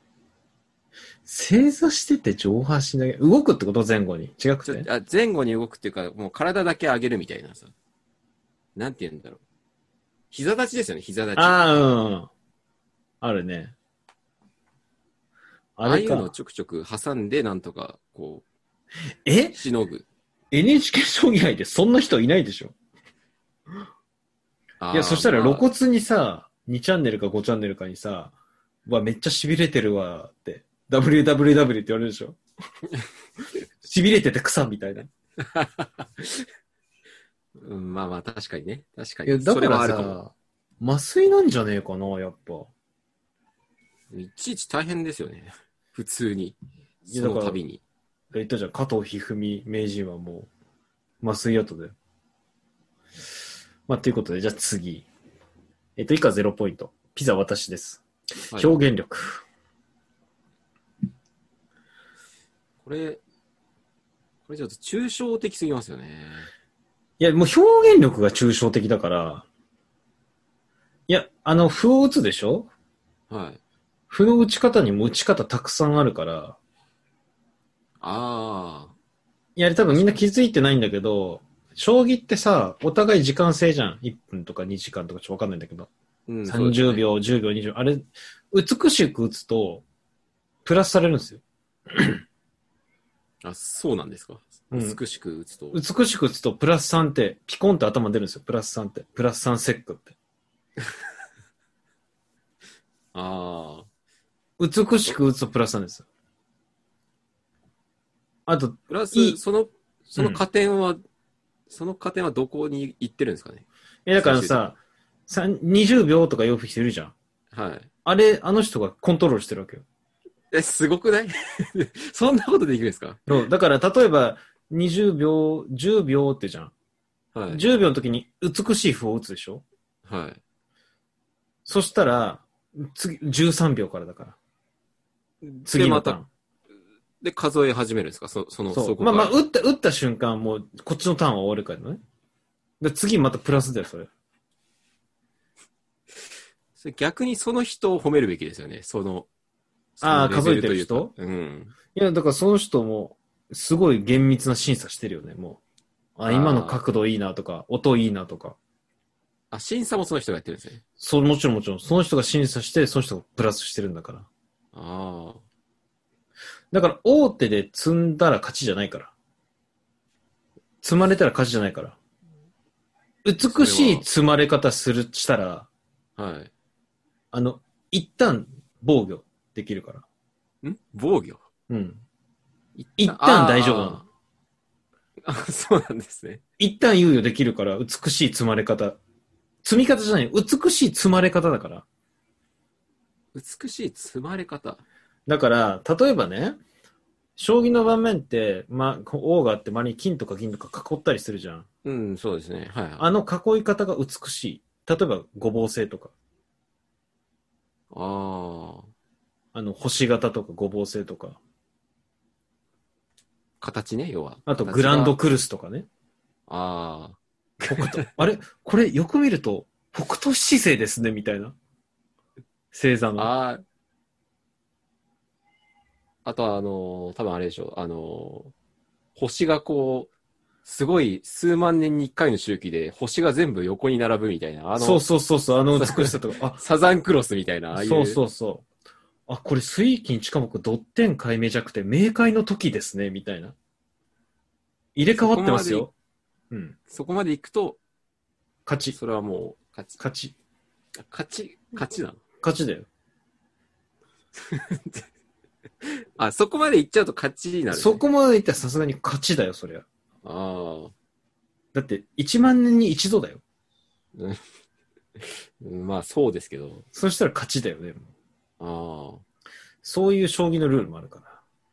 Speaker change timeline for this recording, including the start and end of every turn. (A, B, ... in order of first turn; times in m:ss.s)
0:01.2-0:04.9 A
0:04.6-0:07.7 B
0:08.8-0:09.4 B
0:10.3-0:11.6 B
0:11.4-0:12.3 A
0:13.2-0:13.7 A
0:15.8-0:16.3 A
0:15.8-0:18.4 B
0:19.2-0:19.6 A
0:19.5-0:20.0 B
0:20.5-0:22.7 A
0:24.8-0:25.7 B
0:24.9-0:28.3 A
0:28.8-0:32.4 A
0:33.8-0:35.1 A
0:35.4-0:36.4 B
0:37.6-0:40.2 B
0:39.3-0:42.7 A
0:44.1-0:47.8 B
0:47.1-0:47.6 A
0:48.3-0:50.5 A
0:51.2-0:51.9 A
0:53.9-0:55.0 A
0:56.0-0:59.4 A
1:02.8-1:03.2 B
1:04.5-1:06.5 B
1:07.2-1:09.4 A
1:11.1-1:12.7 A
1:13.3-1:13.6 B
1:14.1-1:16.6 A
1:18.0-1:18.9 B
1:19.6-1:25.9 A
1:26.3-1:27.1 B
1:26.4-1:29.8 A
1:30.6-1:32.2 A
1:33.4-1:35.8 B
1:34.7-1:35.0 A
1:35.7-1:40.1 A
1:43.1-1:43.9 B
1:44.6-1:46.0 A
1:48.5-1:49.4 A
1:48.9-1:51.0 B
1:50.1-1:50.4 A
1:51.7-1:53.6 B
1:54.0-1:57.1 A
1:54.2-1:54.6 B
1:57.5-1:57.9 B
1:58.0-1:59.8 A
2:00.5-2:03.2 B
2:03.3-2:06.7 A
2:07.3-2:07.6 B
2:07.5-2:09.6 A
2:10.0-2:10.4 B
2:11.6-2:14.4 A
2:15.4-2:16.2 B
2:15.6-2:16.3 A
2:17.2-2:19.4 B
2:18.7-2:22.0 A
2:22.8-2:24.1 A
2:26.8-2:29.3 B
2:30.0-2:31.7 B
2:30.0-2:31.1 A
2:31.9-2:35.6 A
2:36.2-2:38.6 A
2:36.2-2:36.8 B
2:39.5-2:40.8 B
2:41.0-2:44.3 A
2:44.7-2:45.4 B
2:46.7-2:49.1 A
2:50.8-2:52.0 A
2:53.2-2:55.7 A
2:53.5-2:54.0 B
2:56.2-2:56.5 B
2:57.3-3:00.0 A
3:00.6-3:01.4 B
3:01.7-3:02.0 A
3:02.8-3:04.1 B
3:03.0-3:04.0 A
3:05.2-3:06.4 B
3:06.6-3:09.0 A
3:09.6-3:11.8 A
3:13.3-3:14.8 B
3:15.3-3:16.6 A
3:17.4-3:21.6 A
3:21.8-3:23.1 B
3:23.0-3:26.1 A
3:27.9-3:28.9 B
3:29.5-3:31.4 A
3:33.6-3:35.1 B
3:34.5-3:35.9 A
3:36.5-3:38.1 B
3:37.7-3:41.5 A
3:42.7-3:43.3 A
3:43.2-3:43.6 B
3:46.2-3:48.5 B
3:49.2-3:50.1 B
3:50.6-3:55.0 B
3:54.8-3:56.6 A
3:55.8-3:58.2 B
3:57.7-3:58.6 A
3:59.3-4:03.5 A
4:05.0-4:05.9 A
4:05.2-4:05.9 B
4:06.5-4:06.8 A
4:06.9-4:07.8 B
4:08.6-4:09.0 A
4:08.9-4:10.0 B
4:10.0-4:10.3 A
4:11.1-4:12.2 B
4:12.4-4:12.9 A
4:14.4-4:15.1 B
4:15.8-4:18.0 B
4:17.7-4:19.8 A
4:20.2-4:20.9 B
4:21.7-4:23.4 A
4:24.2-4:24.4 B
4:25.2-4:26.8 B
4:26.9-4:28.1 A
4:28.6-4:29.2 B
4:29.8-4:31.4 A